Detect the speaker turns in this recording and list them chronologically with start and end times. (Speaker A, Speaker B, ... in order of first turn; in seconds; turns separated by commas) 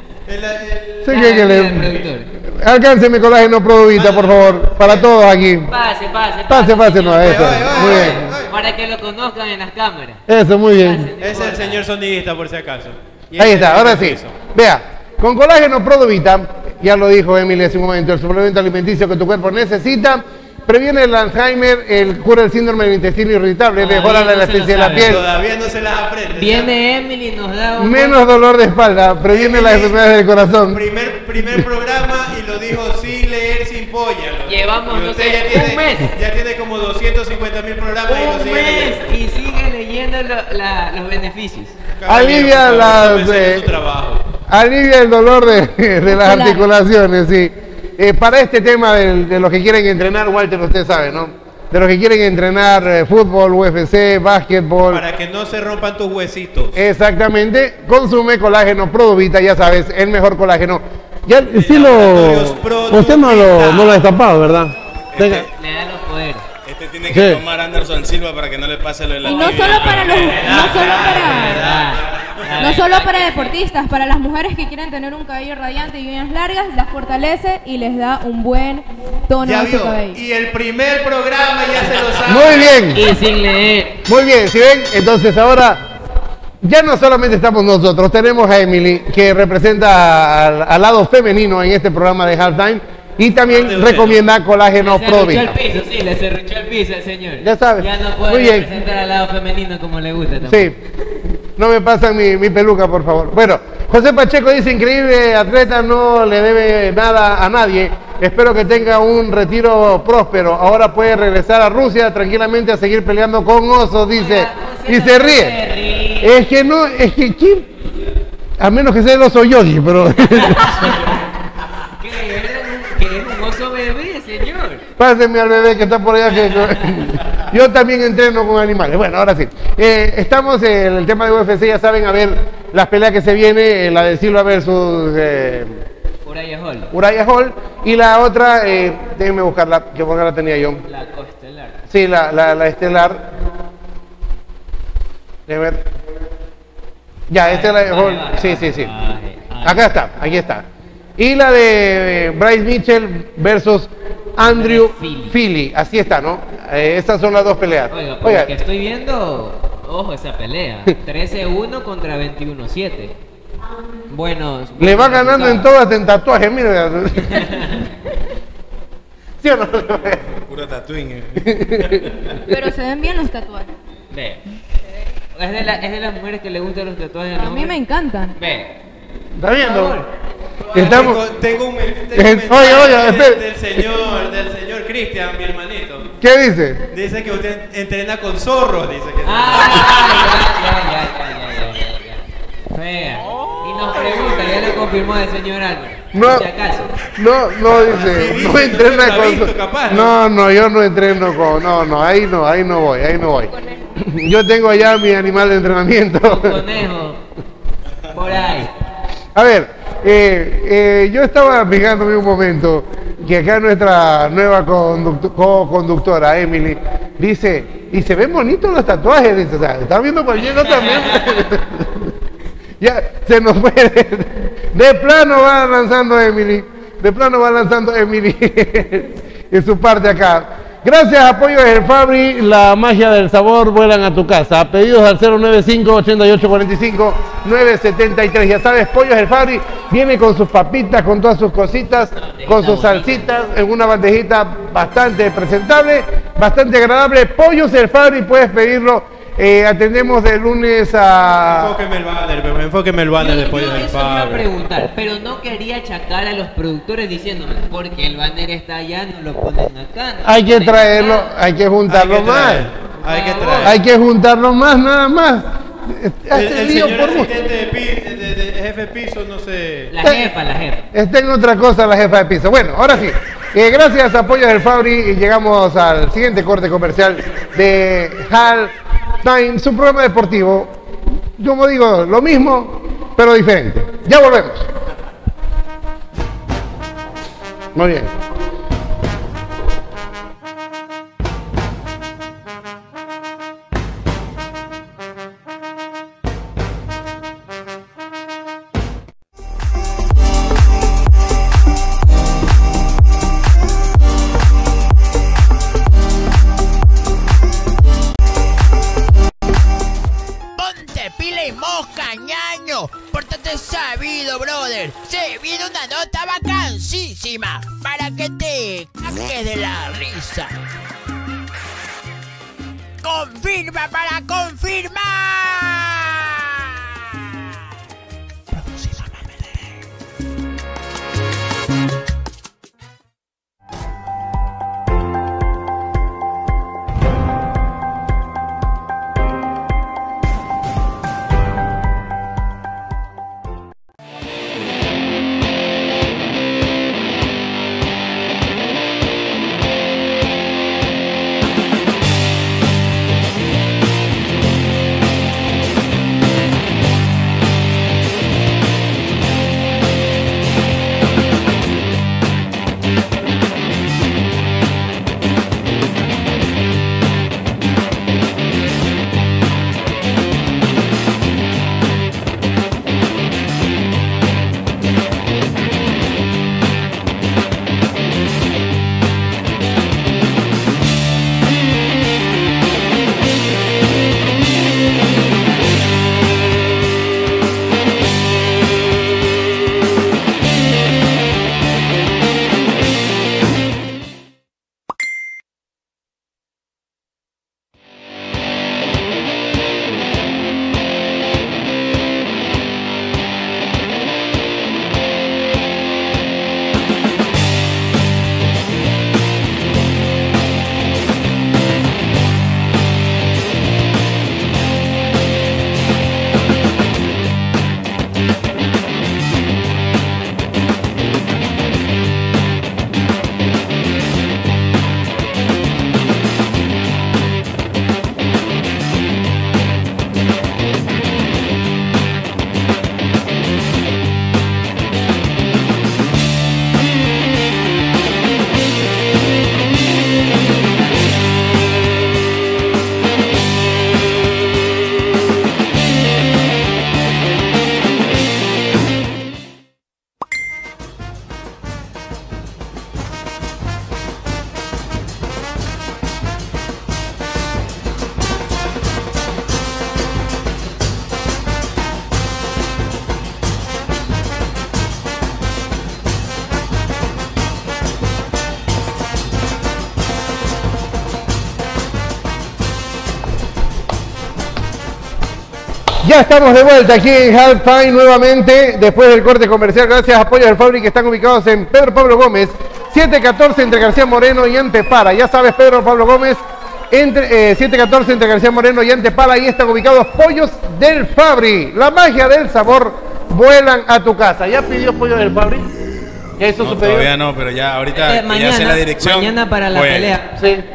Speaker A: 0.3-1.9, Speaker B: 1.1-5.7, Speaker C: 1.1-2.3, Speaker A: 3.9-5.1, Speaker C: 5.7-10.2, Speaker B: 6.5-8.3, Speaker A: 7.2-8.5, Speaker B: 10.3-11.1, Speaker C: 10.8-11.8, Speaker A: 11.2-14.4, Speaker B: 13.4-25.3, Speaker C: 23.8-25.2, Speaker A: 25.0-26.7, Speaker C: 26.4-28.2, Speaker B: 27.8-30.8, Speaker A: 29.3-39.1, Speaker C: 34.5-36.1, Speaker C: 38.1-41.8, Speaker A: 42.0-44.2, Speaker B: 42.1-43.7, Speaker B: 44.5-55.0, Speaker D: 46.1-46.7, Speaker A: 54.9-56.8, Speaker B: 56.7-65.5, Speaker A: 61.5-64.1, Speaker E: 65.1-65.5, Speaker C: 65.5-66.5, Speaker E: 66.7-70.6, Speaker B: 67.1-67.4, Speaker D: 69.2-71.6, Speaker C: 69.2-73.6, Speaker A: 70.1-72.7, Speaker D: 72.6-80.2, Speaker A: 79.4-82.9, Speaker B: 82.2-83.0, Speaker C: 82.9-84.0, Speaker B: 84.1-85.8, Speaker B: 86.6-95.6, Speaker A: 93.5-94.2, Speaker C: 94.8-100.7, Speaker B: 97.4-98.7, Speaker B: 100.5-100.8, Speaker B: 101.6-115.6, Speaker C: 114.1-116.4, Speaker B: 116.2-117.7, Speaker B: 118.6-121.1, Speaker C: 120.4-121.2, Speaker C: 121.9-124.8, Speaker B: 125.0-135.8, Speaker C: 126.5-127.0, Speaker C: 136.2-136.9, Speaker B: 136.9-140.8, Speaker C: 140.8-141.8, Speaker B: 141.9-143.3, Speaker B: 145.5-145.9, Speaker B: 147.3-148.9, Speaker C: 147.4-149.9, Speaker B: 149.6-150.7, Speaker B: 151.2-158.5, Speaker C: 154.4-155.4, Speaker C: 157.9-163.1, Speaker C: 164.1-165.7, Speaker B: 164.8-167.5, Speaker C: 167.2-167.9, Speaker B: 169.4-170.2, Speaker E: 170.0-172.4, Speaker B: 171.4-172.2, Speaker D: 172.4-173.7, Speaker C: 174.1-174.4, Speaker C: 175.3-177.8, Speaker D: 177.3-178.4, Speaker C: 178.3-178.8, Speaker B: 179.4-180.0, Speaker C: 179.6-180.1, Speaker C: 180.6-181.2, Speaker A: 180.7-186.1, Speaker B: 180.8-181.2, Speaker B: 182.1-183.4, Speaker B: 186.2-186.8, Speaker A: 186.9-190.4, Speaker C: 189.2-197.0, Speaker B: 196.1-196.5, Speaker B: 197.2-206.6, Speaker A: 197.7-200.2, Speaker D: 203.4-203.9, Speaker C: 206.2-207.2, Speaker C: 208.1-208.7, Speaker B: 209.3-222.1, Speaker C: 220.7-221.4, Speaker B: 222.8-251.8, Speaker C: 242.1-243.3, Speaker A: 251.4-254.5, Speaker C: 253.2-261.3, Speaker B: 260.2-262.7, Speaker A: 261.9-263.8, Speaker C: 263.0-263.8, Speaker B: 263.6-267.4, Speaker A: 266.3-269.9, Speaker C: 269.9-270.9, Speaker B: 270.0-270.3, Speaker B: 270.9-280.7, Speaker B: 281.4-284.7, Speaker B: 287.8-288.1, Speaker F: 310.6-320.5, Speaker F: 323.0-326.9, Speaker F: 328.5-329.8, Speaker B: 476.0-495.7, Speaker B: 496.4-497.1, Speaker E: 496.6-500.2, Speaker C: 497.9-500.4, Speaker B: 500.4-500.6